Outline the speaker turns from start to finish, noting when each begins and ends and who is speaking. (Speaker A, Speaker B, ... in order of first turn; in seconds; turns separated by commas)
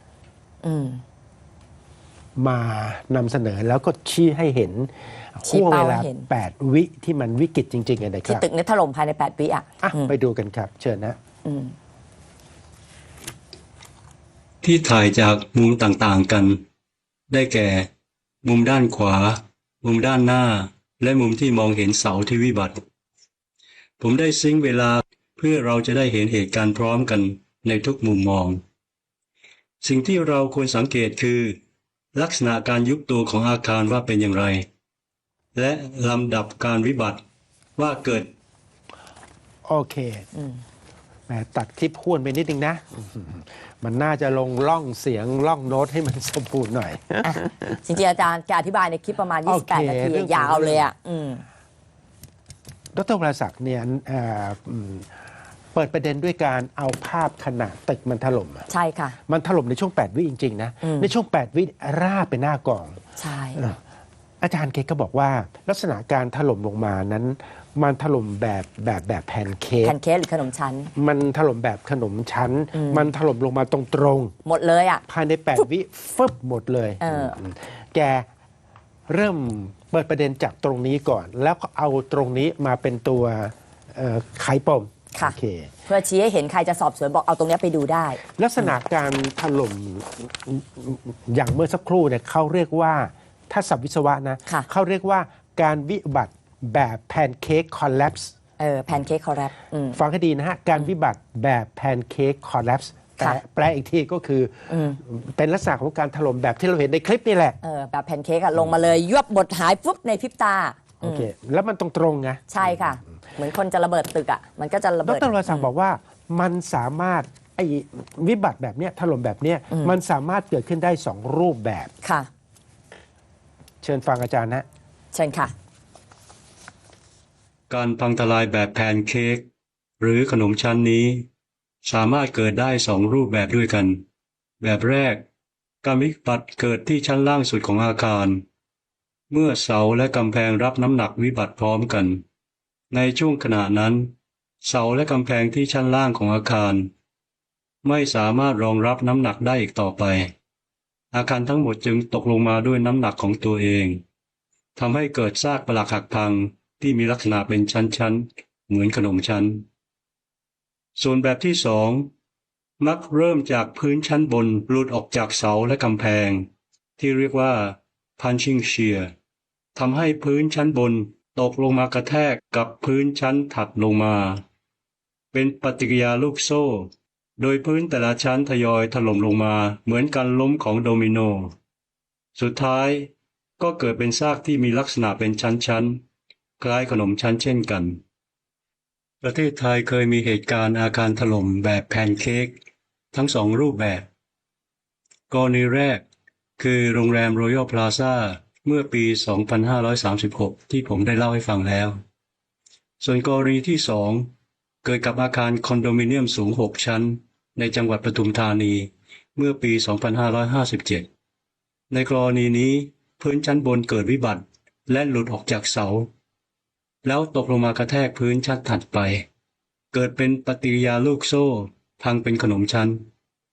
Speaker A: 0.6-1.0, Speaker B: 2.4-8.5, Speaker A: 5.5-6.3, Speaker A: 8.3-10.1, Speaker B: 9.8-11.2, Speaker A: 11.4-11.7, Speaker C: 14.6-16.6, Speaker C: 17.3-17.9, Speaker C: 18.4-22.8, Speaker C: 24.0-28.6, Speaker C: 29.8-31.6, Speaker C: 32.1-34.7, Speaker C: 35.5-37.2, Speaker C: 37.8-38.3, Speaker B: 39.7-40.3, Speaker A: 40.3-40.6, Speaker B: 41.3-47.8, Speaker A: 47.2-51.5, Speaker B: 49.5-50.9, Speaker B: 53.0-55.2, Speaker B: 55.7-58.7, Speaker A: 58.7-59.2, Speaker B: 59.3-63.0, Speaker A: 60.8-61.1, Speaker A: 63.2-63.6, Speaker B: 63.5-63.8, Speaker B: 64.4-70.0, Speaker A: 69.8-70.9, Speaker B: 71.0-74.3, Speaker A: 72.7-73.1, Speaker A: 74.5-75.0, Speaker B: 75.1-78.3, Speaker A: 77.0-77.4, Speaker B: 79.1-85.7, Speaker A: 85.9-88.7, Speaker B: 88.4-98.3, Speaker A: 98.6-100.0, Speaker B: 99.9-107.6, Speaker A: 104.7-105.0, Speaker A: 107.6-111.3, Speaker B: 111.0-112.8, Speaker A: 112.5-115.7, Speaker B: 115.0-121.9, Speaker A: 122.0-122.3, Speaker B: 123.8-124.7, Speaker A: 125.1-125.5, Speaker C: 127.7-129.5, Speaker C: 130.0-131.3, Speaker C: 131.8-134.0, Speaker C: 134.6-135.2, Speaker C: 135.8-138.4, Speaker C: 139.3-142.2, Speaker C: 142.9-144.1, Speaker C: 144.6-146.9, Speaker C: 147.8-150.3, Speaker C: 151.1-154.0, Speaker C: 154.8-159.7, Speaker C: 161.0-162.1, Speaker C: 162.8-169.1, Speaker C: 169.8-174.4, Speaker C: 175.3-181.5, Speaker C: 182.4-186.0, Speaker C: 186.6-188.0, Speaker C: 189.2-192.6, Speaker C: 193.1-194.1, Speaker C: 195.3-196.0, Speaker C: 196.6-202.0, Speaker C: 203.0-204.3, Speaker C: 204.8-211.1, Speaker C: 211.9-216.1, Speaker C: 217.0-219.3, Speaker C: 219.9-223.1